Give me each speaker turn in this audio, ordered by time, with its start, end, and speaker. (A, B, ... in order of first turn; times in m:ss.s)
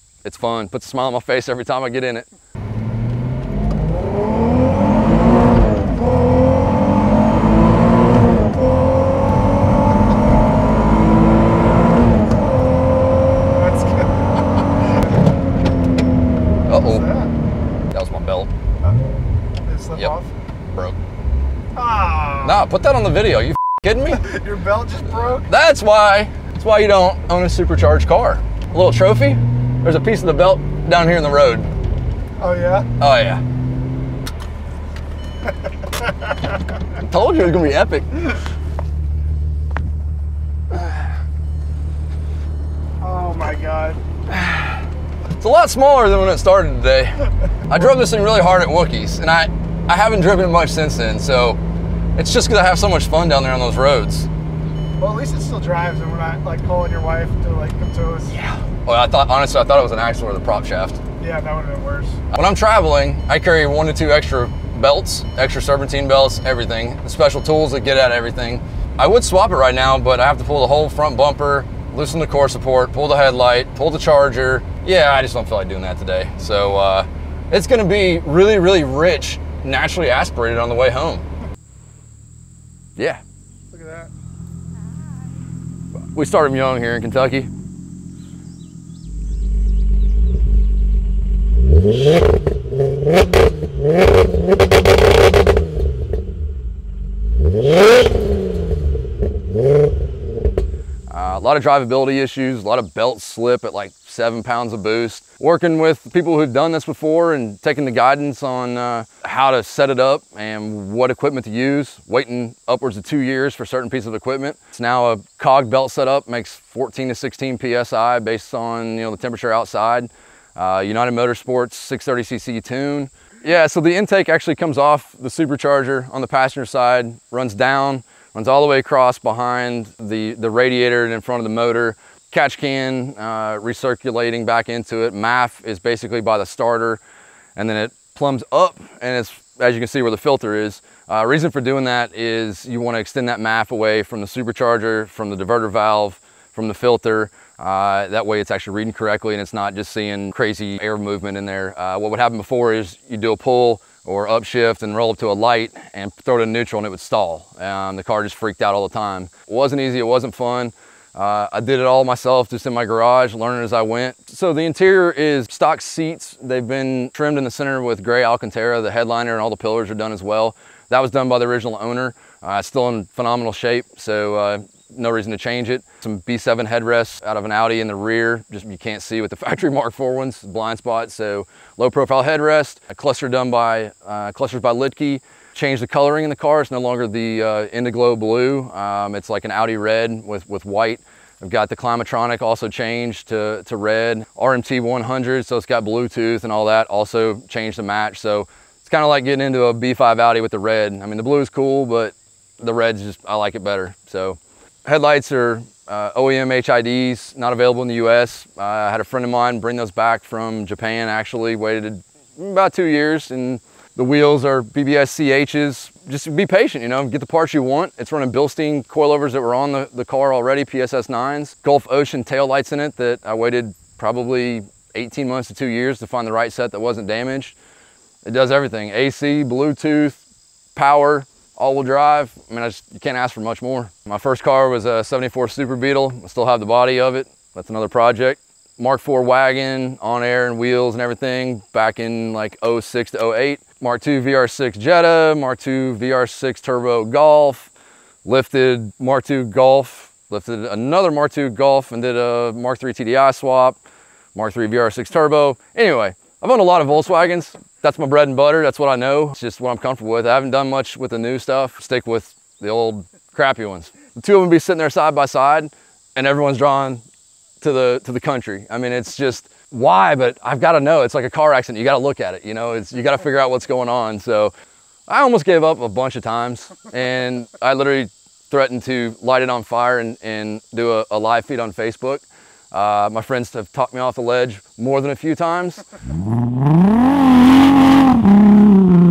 0:00.2-0:02.3 A
0:13.5-0:14.1 B
0:14.8-0:15.3 B
0:16.7-0:17.1 A
0:16.8-0:17.3 B
0:17.9-0:18.5 A
0:19.6-0:20.3 B
0:21.7-0:22.6 B
0:22.4-0:24.3 A
0:24.2-0:25.4 B
0:25.3-0:31.7 A
0:32.4-0:32.9 B
0:33.0-0:33.4 A
0:36.9-0:38.3 A
0:43.0-0:44.0 B
0:44.3-0:44.7 A
0:45.4-0:51.6 A
0:52.2-0:54.3 A
0:55.0-0:58.3 B
0:58.3-1:01.0 A
1:01.2-1:02.2 B
1:02.3-1:21.2 A
1:23.7-1:24.1 B
1:26.1-1:27.5 A
1:41.1-2:17.0 A
2:17.6-3:47.6 A
3:48.2-3:50.2 A
3:50.8-4:07.7 A
4:08.2-4:13.8 A
4:14.3-4:27.0 A
4:27.6-4:34.5 A
4:35.1-4:45.9 A